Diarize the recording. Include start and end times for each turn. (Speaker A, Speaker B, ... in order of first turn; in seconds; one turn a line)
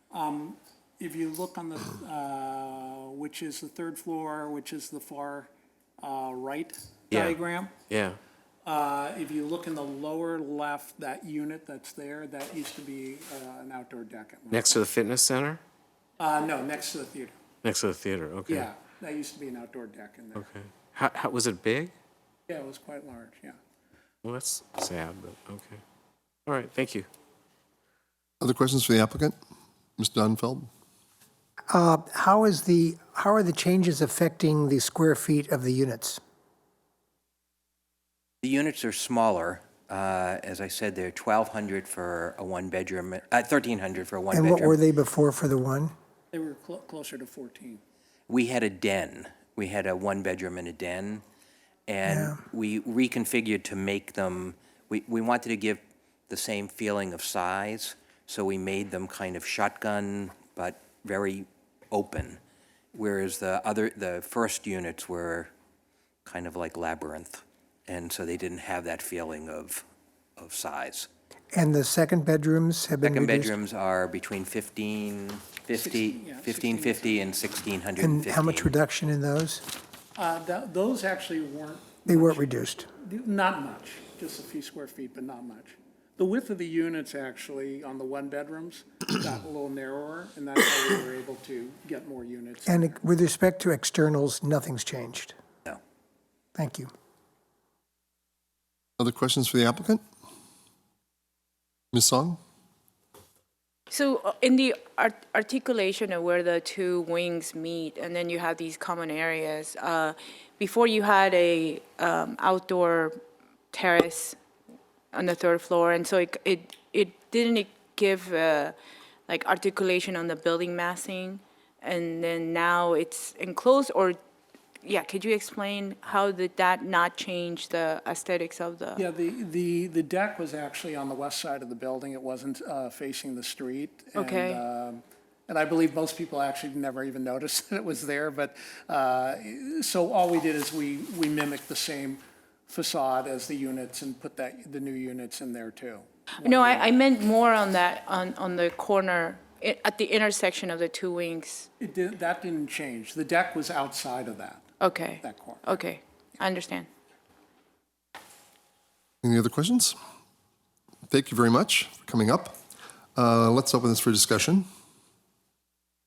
Speaker A: 0.1-7.7
Speaker B: 7.1-7.3
Speaker B: 7.9-8.2
Speaker A: 8.6-14.8
Speaker B: 14.5-15.6
Speaker A: 16.2-17.4
Speaker B: 17.6-18.7
Speaker A: 18.5-20.5
Speaker B: 20.4-21.9
Speaker A: 22.5-23.6
Speaker B: 24.2-25.8
Speaker B: 26.4-27.1
Speaker C: 28.4-29.4
Speaker C: 30.0-30.7
Speaker D: 31.7-36.2
Speaker E: 38.4-44.8
Speaker D: 44.3-45.9
Speaker A: 46.3-47.8
Speaker E: 48.3-51.2
Speaker E: 51.9-62.4
Speaker D: 52.0-52.4
Speaker E: 62.9-65.5
Speaker E: 66.2-69.8
Speaker E: 70.4-71.1
Speaker D: 71.5-73.5
Speaker E: 73.0-78.7
Speaker A: 75.7-77.2
Speaker D: 78.0-79.6
Speaker A: 80.2-93.0
Speaker D: 82.0-82.9
Speaker D: 92.7-95.3
Speaker D: 96.5-96.9
Speaker C: 99.0-100.0
Speaker C: 101.9-102.4
Speaker F: 103.9-113.1
Speaker F: 113.7-114.4
Speaker F: 115.1-118.8
Speaker F: 119.3-124.2
Speaker F: 124.8-129.1
Speaker A: 128.9-146.9
Speaker F: 134.1-134.6
Speaker F: 146.4-151.7
Speaker A: 151.8-155.8
Speaker F: 154.8-156.9
Speaker C: 159.2-159.9
Speaker C: 161.1-162.6
Speaker C: 163.2-164.7